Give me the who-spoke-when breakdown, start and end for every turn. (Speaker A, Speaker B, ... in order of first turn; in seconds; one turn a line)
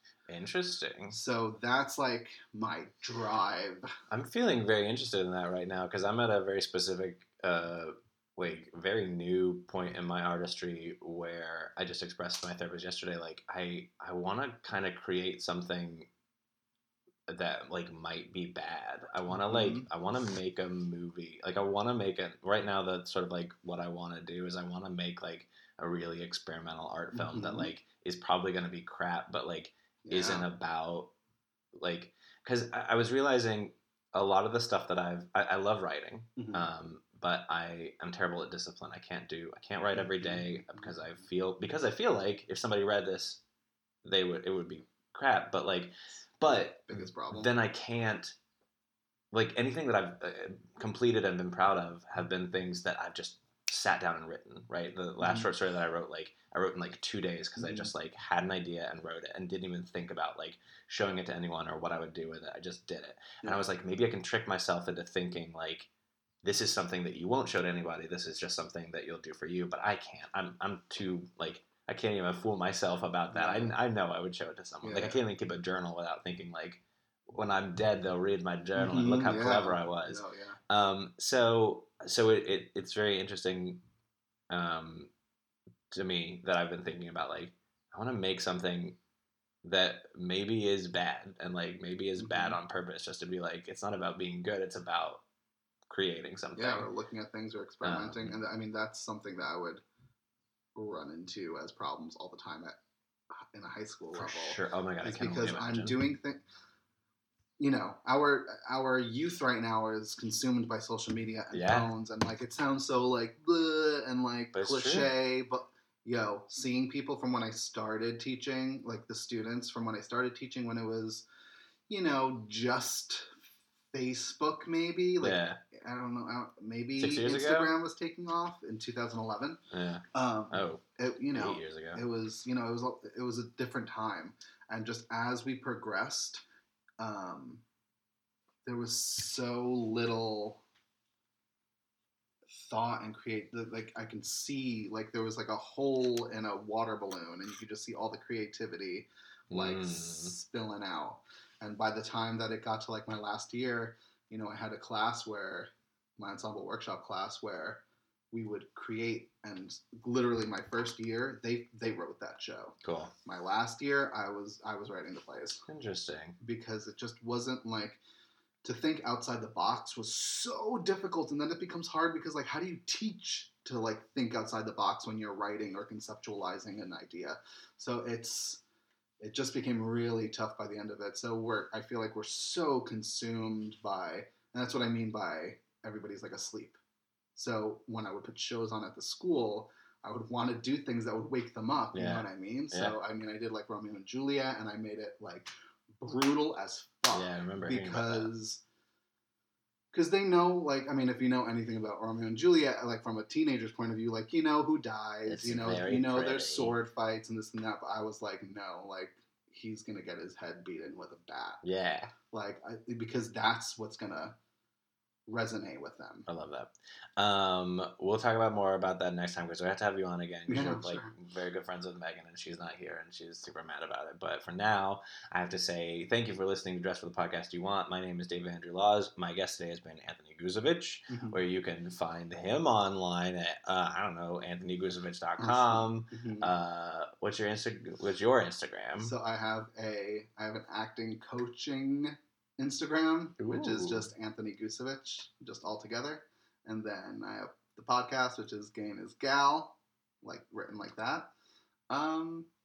Speaker A: 0.3-1.2
Speaker B: 1.1-3.9
Speaker A: 4.1-16.1
Speaker A: 17.3-31.1
Speaker B: 19.3-19.9
Speaker B: 27.1-27.7
Speaker B: 30.1-30.5
Speaker A: 31.8-43.4
Speaker B: 36.4-36.7
Speaker B: 39.9-41.0
Speaker A: 44.0-48.4
Speaker B: 46.9-47.5
Speaker A: 49.3-65.9
Speaker B: 55.2-55.5
Speaker B: 57.6-57.9
Speaker A: 66.4-83.8
Speaker B: 73.3-73.8
Speaker B: 74.8-75.2
Speaker B: 78.8-80.6
Speaker A: 84.5-85.1
Speaker A: 85.9-89.0
Speaker A: 89.6-95.2
Speaker B: 92.2-92.6
Speaker A: 95.9-96.9
Speaker B: 96.6-99.8
Speaker A: 97.8-98.4
Speaker B: 100.8-102.8
Speaker B: 103.5-106.4
Speaker A: 104.1-106.0
Speaker B: 107.6-121.2
Speaker A: 111.5-111.9
Speaker A: 114.5-115.1
Speaker B: 121.9-123.4
Speaker B: 123.9-129.6
Speaker A: 125.2-125.6
Speaker A: 127.0-127.7
Speaker A: 129.7-132.0
Speaker B: 130.1-136.4
Speaker B: 137.0-137.6
Speaker B: 138.7-140.6
Speaker B: 142.5-165.7
Speaker A: 149.5-150.3
Speaker A: 162.8-163.1
Speaker A: 165.7-166.4
Speaker B: 166.4-168.0
Speaker B: 168.6-178.6
Speaker B: 179.2-186.8
Speaker B: 187.4-198.6
Speaker A: 191.9-193.0
Speaker A: 197.1-198.3
Speaker B: 199.9-211.6
Speaker A: 205.3-206.8
Speaker A: 211.6-212.1
Speaker B: 212.3-214.4
Speaker B: 215.3-216.3
Speaker A: 216.3-239.1
Speaker B: 220.5-221.1
Speaker B: 231.1-231.4
Speaker B: 235.4-236.5
Speaker B: 239.0-251.3
Speaker A: 243.4-244.1
Speaker B: 251.9-252.5